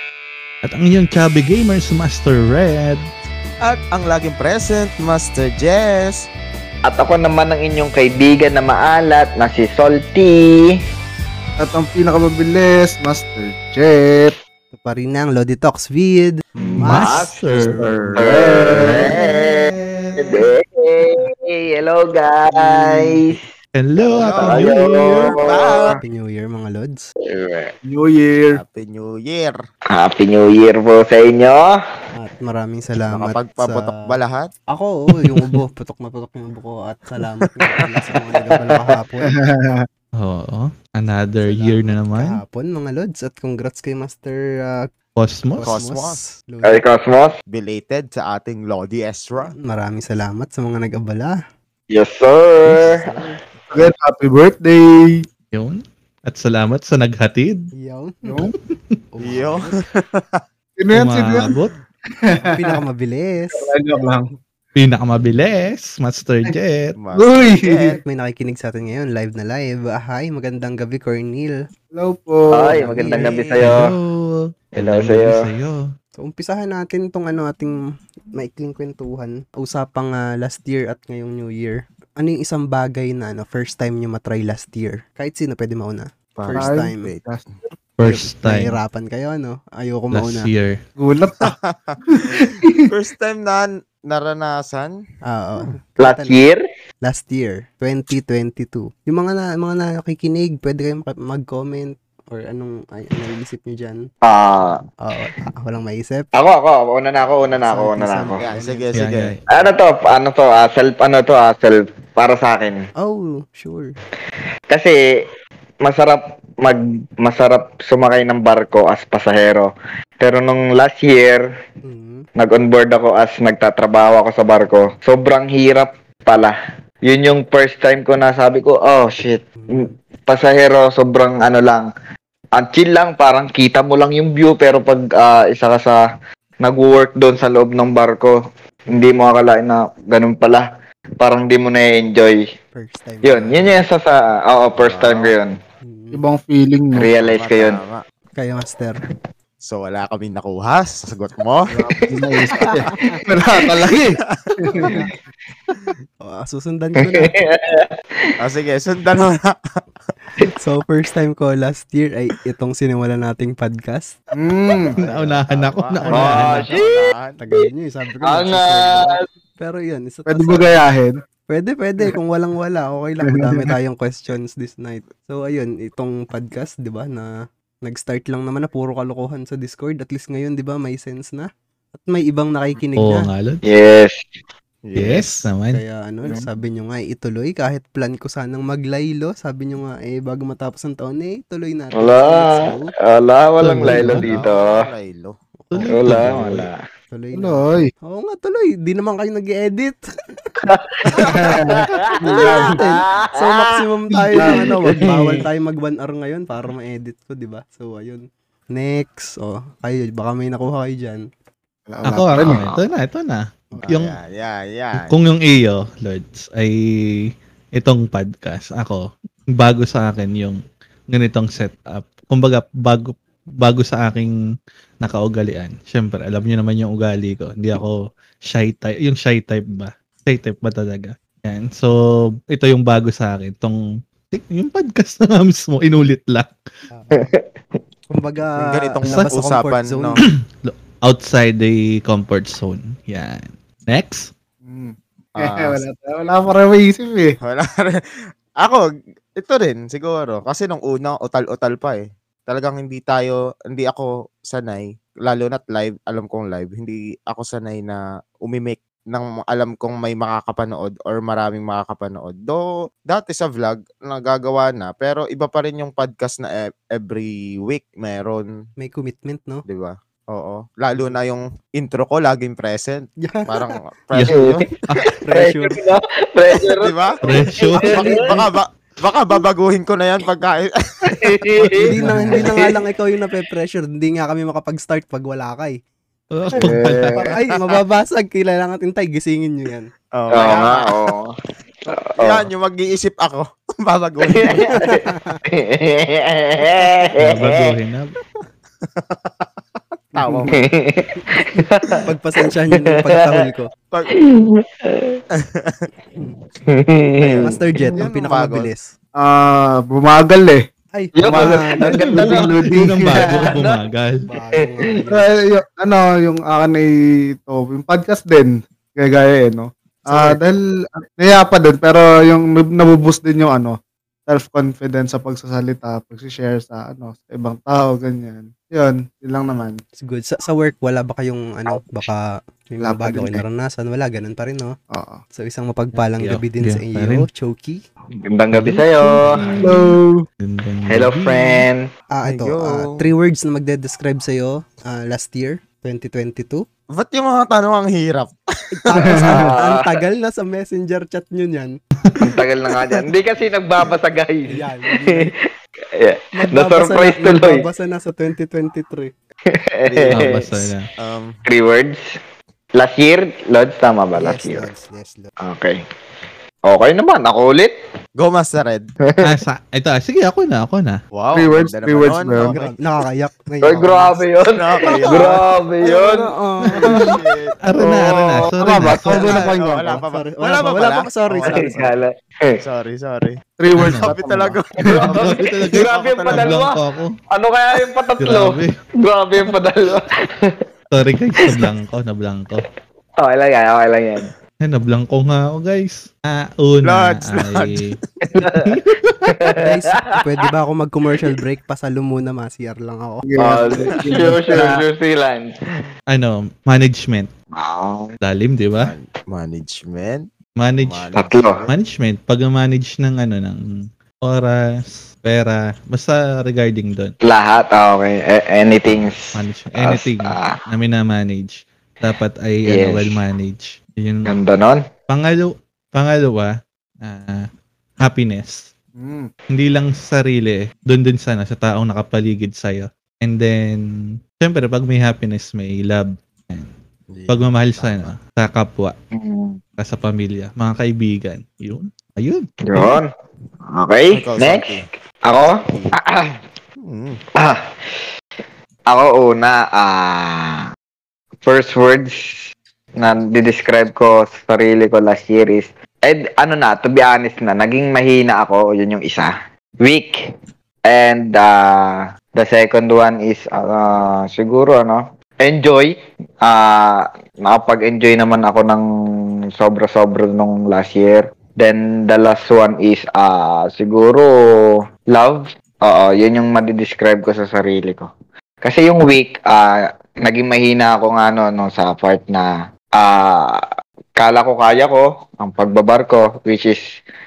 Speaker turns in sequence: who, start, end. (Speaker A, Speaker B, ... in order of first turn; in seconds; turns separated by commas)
Speaker A: 0.6-3.1, Speaker B: 3.6-6.3, Speaker C: 6.8-10.8, Speaker D: 11.6-14.3, Speaker E: 14.7-18.2, Speaker C: 16.6-23.5, Speaker A: 16.8-17.8, Speaker D: 18.3-19.1, Speaker A: 18.6-20.4, Speaker E: 22.5-23.3, Speaker A: 23.7-25.3, Speaker B: 24.0-24.8, Speaker C: 24.2-26.0, Speaker B: 25.3-26.0, Speaker E: 26.0-27.0, Speaker C: 27.2-27.7, Speaker D: 27.9-28.6, Speaker B: 28.5-29.6, Speaker C: 29.9-31.8, Speaker E: 32.1-33.9, Speaker B: 33.0-34.5, Speaker E: 34.7-39.4, Speaker B: 37.6-37.9, Speaker C: 38.5-39.0, Speaker D: 39.3-39.9, Speaker A: 40.2-42.4, Speaker E: 41.4-44.9, Speaker A: 45.1-45.7, Speaker E: 45.5-46.8, Speaker B: 45.6-46.2, Speaker C: 46.6-47.4, Speaker B: 47.5-49.5, Speaker E: 49.4-51.3, Speaker C: 51.9-53.3, Speaker B: 52.8-53.3, Speaker D: 53.7-55.2, Speaker A: 55.5-57.7, Speaker E: 57.8-58.4, Speaker D: 58.2-58.5, Speaker E: 59.1-59.8, Speaker B: 59.2-60.4, Speaker D: 60.8-61.5, Speaker A: 60.9-61.7, Speaker E: 62.5-63.7, Speaker D: 63.5-64.3, Speaker A: 64.7-67.0, Speaker B: 67.0-68.0, Speaker D: 67.2-67.9, Speaker E: 67.8-71.6, Speaker D: 71.9-73.1, Speaker C: 72.5-74.0, Speaker B: 72.9-73.7, Speaker A: 73.6-75.9, Speaker C: 74.7-75.5, Speaker E: 76.2-77.8, Speaker E: 78.3-87.1, Speaker B: 86.3-87.2, Speaker D: 86.5-87.4, Speaker A: 88.0-88.8, Speaker E: 88.0-90.5, Speaker A: 90.1-90.8, Speaker D: 91.0-91.5, Speaker B: 91.4-95.0, Speaker D: 92.1-92.8, Speaker E: 95.3-96.4, Speaker C: 96.0-96.6, Speaker E: 97.0-104.0, Speaker C: 104.2-104.8, Speaker E: 105.0-106.3, Speaker C: 106.3-108.4, Speaker E: 107.6-109.0, Speaker B: 108.4-109.7, Speaker A: 108.9-109.4, Speaker C: 109.5-112.8, Speaker E: 113.0-114.0, Speaker C: 114.7-115.0, Speaker C: 115.8-121.5, Speaker E: 121.8-122.3, Speaker C: 122.3-131.9, Speaker E: 129.6-129.9, Speaker C: 132.6-136.0, Speaker C: 136.6-138.3, Speaker C: 138.9-140.7, Speaker C: 141.2-142.4, Speaker E: 142.7-143.8, Speaker C: 143.2-145.6, Speaker B: 144.8-145.3, Speaker E: 145.8-146.2, Speaker D: 146.1-147.1, Speaker C: 146.9-147.8, Speaker B: 147.2-148.0, Speaker E: 148.3-149.0, Speaker B: 149.6-151.7, Speaker D: 151.7-155.0, Speaker C: 151.9-153.1, Speaker E: 152.7-153.2, Speaker B: 154.4-154.9, Speaker E: 154.8-155.1, Speaker E: 156.2-157.3, Speaker C: 157.0-158.3, Speaker B: 158.4-159.8, Speaker E: 160.6-164.2, Speaker D: 164.4-164.9, Speaker B: 164.8-167.4, Speaker A: 165.1-166.7, Speaker C: 166.1-167.1, Speaker E: 167.4-170.8, Speaker C: 168.2-169.2, Speaker D: 170.3-171.2, Speaker E: 171.5-177.3, Speaker D: 173.2-173.7, Speaker E: 177.8-183.3, Speaker A: 183.0-183.6, Speaker C: 183.6-184.2, Speaker B: 184.8-185.5, Speaker A: 185.0-185.8, Speaker E: 185.7-192.9, Speaker C: 191.9-194.9, Speaker A: 193.6-194.3, Speaker B: 194.1-195.4, Speaker E: 195.6-196.1, Speaker A: 195.7-196.7, Speaker C: 195.9-196.8, Speaker E: 197.1-200.0, Speaker D: 197.3-197.9, Speaker C: 200.6-205.4, Speaker E: 201.1-211.2, Speaker D: 201.1-202.8, Speaker D: 204.3-204.7, Speaker D: 211.9-212.6, Speaker A: 212.0-214.2, Speaker C: 212.4-212.8, Speaker B: 213.8-215.1, Speaker A: 215.0-220.6, Speaker A: 221.1-224.3, Speaker A: 225.0-231.9, Speaker A: 232.5-233.8, Speaker A: 234.3-236.5, Speaker E: 236.9-237.3, Speaker C: 237.1-237.8, Speaker E: 238.1-240.2, Speaker B: 238.6-240.2, Speaker A: 239.0-239.3, Speaker A: 240.2-244.3, Speaker D: 244.6-247.4, Speaker B: 245.3-245.8, Speaker B: 247.4-248.1, Speaker B: 248.6-268.5, Speaker E: 268.8-269.6, Speaker B: 269.7-274.6, Speaker E: 273.2-273.8, Speaker C: 274.2-278.3, Speaker E: 275.2-275.9, Speaker B: 276.6-281.4, Speaker A: 277.2-278.0, Speaker E: 277.6-278.4, Speaker C: 281.1-282.8, Speaker A: 281.6-282.3, Speaker E: 281.7-285.8, Speaker D: 282.0-282.5, Speaker A: 286.3-287.3, Speaker C: 286.6-287.3, Speaker B: 287.1-287.7, Speaker E: 287.3-289.9, Speaker B: 290.1-291.1, Speaker C: 290.3-291.3, Speaker C: 291.9-292.4, Speaker B: 292.2-294.7, Speaker C: 294.3-297.8, Speaker E: 294.6-295.4, Speaker A: 297.2-298.1, Speaker B: 298.8-300.5, Speaker D: 300.2-300.5, Speaker C: 300.5-302.1, Speaker E: 301.2-303.7, Speaker C: 302.7-303.4, Speaker C: 304.1-305.2, Speaker B: 305.4-305.9, Speaker C: 306.6-307.9, Speaker E: 307.2-308.9, Speaker B: 308.0-308.7, Speaker D: 309.2-310.6, Speaker E: 310.9-312.4, Speaker C: 311.1-312.5, Speaker D: 311.2-313.3, Speaker A: 312.1-314.3, Speaker C: 313.1-313.8, Speaker E: 314.3-315.3, Speaker C: 314.6-315.0, Speaker D: 315.1-329.8, Speaker E: 330.0-334.7, Speaker D: 332.8-333.4, Speaker D: 334.9-335.2, Speaker E: 335.3-337.8, Speaker A: 336.2-337.3, Speaker C: 338.3-339.7, Speaker A: 338.5-339.8, Speaker E: 339.2-339.7, Speaker D: 339.6-340.2, Speaker A: 340.4-341.7, Speaker C: 340.9-341.8, Speaker E: 342.1-346.6, Speaker B: 342.2-343.0, Speaker B: 346.9-348.3, Speaker E: 348.7-351.8, Speaker B: 348.9-349.2, Speaker D: 349.0-349.5, Speaker C: 349.1-350.0, Speaker C: 352.2-357.6, Speaker B: 352.7-353.0, Speaker E: 354.5-355.3, Speaker E: 356.3-359.1, Speaker C: 359.5-360.5, Speaker B: 359.8-361.4, Speaker A: 360.1-360.9, Speaker C: 361.4-362.0, Speaker C: 362.7-364.7, Speaker E: 364.1-365.3, Speaker C: 365.4-365.8, Speaker C: 366.7-367.7, Speaker B: 368.2-368.9, Speaker C: 369.0-369.4, Speaker A: 369.2-371.0, Speaker B: 371.1-372.7, Speaker D: 371.3-372.8, Speaker E: 372.5-374.2, Speaker C: 373.6-376.3, Speaker B: 374.5-375.4, Speaker E: 374.8-377.2, Speaker A: 376.8-379.3, Speaker B: 376.8-377.6, Speaker C: 377.8-379.3, Speaker D: 378.6-380.0, Speaker B: 379.1-382.0, Speaker E: 380.1-381.9, Speaker C: 381.4-382.6, Speaker B: 382.6-386.6, Speaker D: 383.6-384.2, Speaker A: 383.7-384.1, Speaker E: 384.2-384.6, Speaker C: 384.8-390.6, Speaker A: 385.1-387.1, Speaker A: 388.2-388.7, Speaker A: 390.9-392.6, Speaker C: 391.4-391.7, Speaker C: 392.6-394.3, Speaker A: 394.6-399.3, Speaker B: 396.8-398.0, Speaker C: 398.2-400.4, Speaker E: 399.6-403.3, Speaker D: 403.3-404.8, Speaker C: 403.4-405.8, Speaker A: 406.1-407.3, Speaker C: 407.5-408.1, Speaker A: 408.2-408.9, Speaker B: 408.8-411.7, Speaker A: 410.6-411.1, Speaker C: 411.1-411.6, Speaker A: 411.7-413.6, Speaker A: 414.2-417.1, Speaker C: 417.2-420.7, Speaker A: 419.3-424.3, Speaker C: 422.6-423.2, Speaker C: 424.3-424.8, Speaker A: 425.1-427.5, Speaker A: 428.0-428.7, Speaker D: 429.0-429.3, Speaker A: 429.5-433.8, Speaker A: 434.4-436.7, Speaker B: 437.1-438.1, Speaker A: 437.3-438.9, Speaker C: 439.1-439.6, Speaker A: 439.8-443.0, Speaker C: 442.6-443.1, Speaker C: 443.7-446.4, Speaker B: 444.1-444.8, Speaker B: 446.8-447.2, Speaker C: 447.3-448.1, Speaker C: 448.9-450.6, Speaker C: 451.4-452.4, Speaker C: 453.0-460.1, Speaker C: 460.9-468.8, Speaker C: 469.6-478.1, Speaker C: 478.6-483.6, Speaker C: 484.2-486.8